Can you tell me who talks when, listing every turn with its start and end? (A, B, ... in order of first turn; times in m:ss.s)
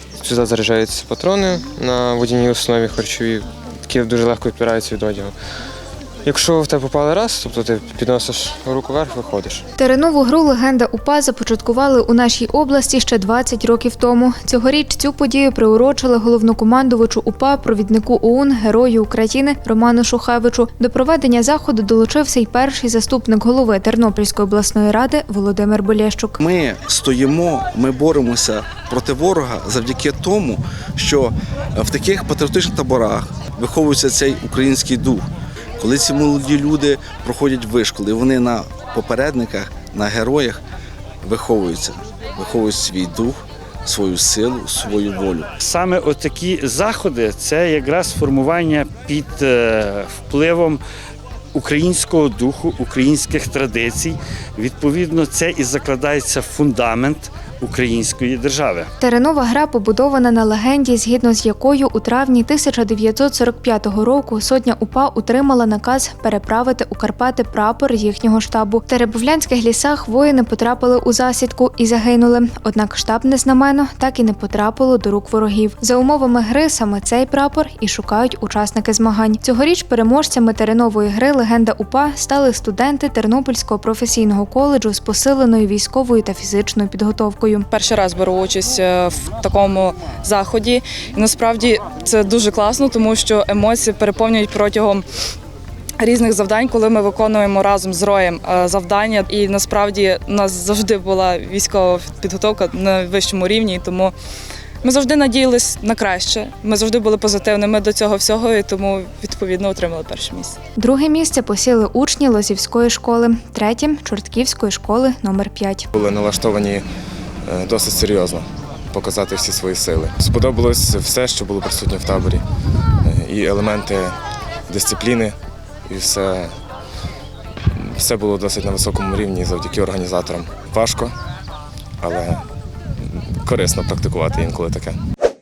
0:00.2-0:05.4 A
0:06.2-0:09.7 A
0:09.8-0:26.4 B
0:26.4-0:35.3 C
0:35.8-0:40.6 C
0:41.2-0:45.5 C
0:45.6-0:50.8 D
0:51.5-0:58.9 D
0:59.0-1:27.7 B
1:27.7-1:35.0 E
1:36.0-1:44.1 E
1:44.8-1:50.6 E
1:50.8-1:55.9 B
1:55.9-1:56.8 F
1:57.4-2:02.4 F
2:03.0-2:04.2 F
2:04.7-2:05.4 F
2:05.9-2:06.5 F
2:07.7-2:11.1 F
2:12.0-2:12.4 F
2:13.1-2:15.0 F